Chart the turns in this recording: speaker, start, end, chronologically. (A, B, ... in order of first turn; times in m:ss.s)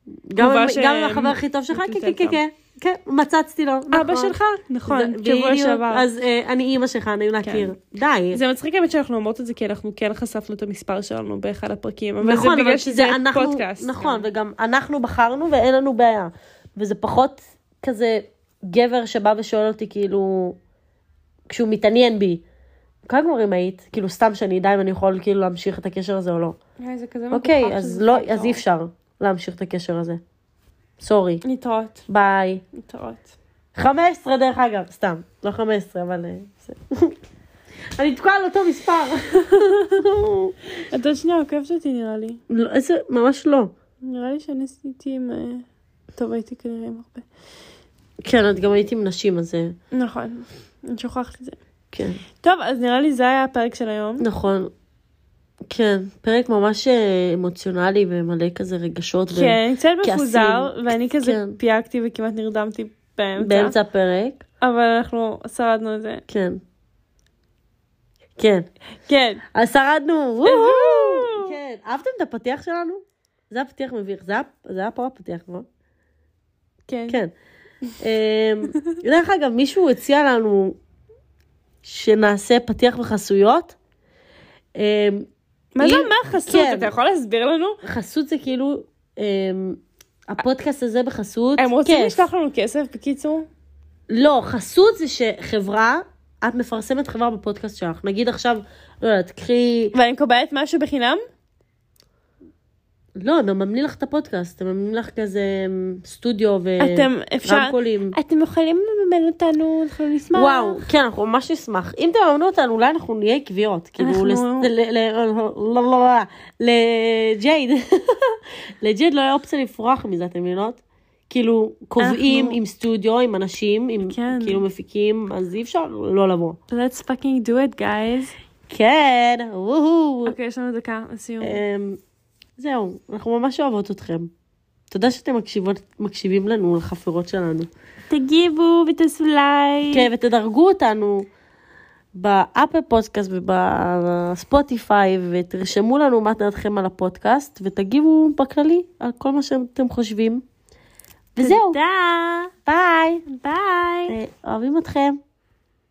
0:00.3-0:04.3 A
0:00.4-0:02.4 B
0:03.9-0:06.1 B
0:04.9-0:08.4 A
0:07.4-0:07.7 B
0:08.3-0:14.3 B
0:12.2-0:20.6 A
0:21.5-0:22.4 A
0:23.0-0:26.6 A
0:26.8-0:28.6 B
0:27.3-0:30.2 A
0:31.0-0:31.4 A
0:31.4-0:32.0 B
0:32.1-0:32.6 A
0:32.7-0:33.4 B
0:33.7-0:37.1 A
0:38.0-0:40.5 A
0:40.8-0:42.4 B
0:42.5-0:43.7 A
0:44.0-0:45.6 B
0:46.2-0:47.2 B
0:48.2-0:49.8 A
0:49.9-0:51.6 B
0:51.9-0:52.2 A
0:52.4-0:54.3 B
0:54.2-0:54.7 A
0:55.7-1:01.6 A
0:59.3-1:03.8 B
1:03.4-1:04.4 A
1:04.6-1:06.2 B
1:06.3-1:06.6 A
1:08.4-1:08.7 A
1:09.1-1:09.4 B
1:09.5-1:15.6 A
1:10.4-1:11.6 B
1:16.9-1:17.2 B
1:18.0-1:20.8 A
1:21.8-1:23.8 A
1:24.7-1:25.3 A
1:25.8-1:27.8 B
1:25.8-1:26.9 A
1:27.8-1:32.2 A
1:31.6-1:33.5 B
1:34.1-1:39.9 A
1:39.9-1:41.2 B
1:43.2-1:48.1 A
1:46.8-1:50.8 B
1:50.3-2:06.6 A
1:54.0-1:54.7 B
2:02.0-2:02.6 B
2:04.1-2:04.6 B
2:06.7-2:08.3 B
2:08.7-2:10.3 A
2:10.2-2:11.6 B
2:11.4-2:12.0 A
2:12.6-2:14.3 A
2:14.9-2:17.7 A
2:18.1-2:20.1 B
2:19.9-2:21.3 A
2:22.1-2:30.4 A
2:31.4-2:31.8 A
2:31.4-2:32.5 B
2:32.6-2:33.2 A
2:33.3-2:34.2 B
2:34.1-2:35.2 A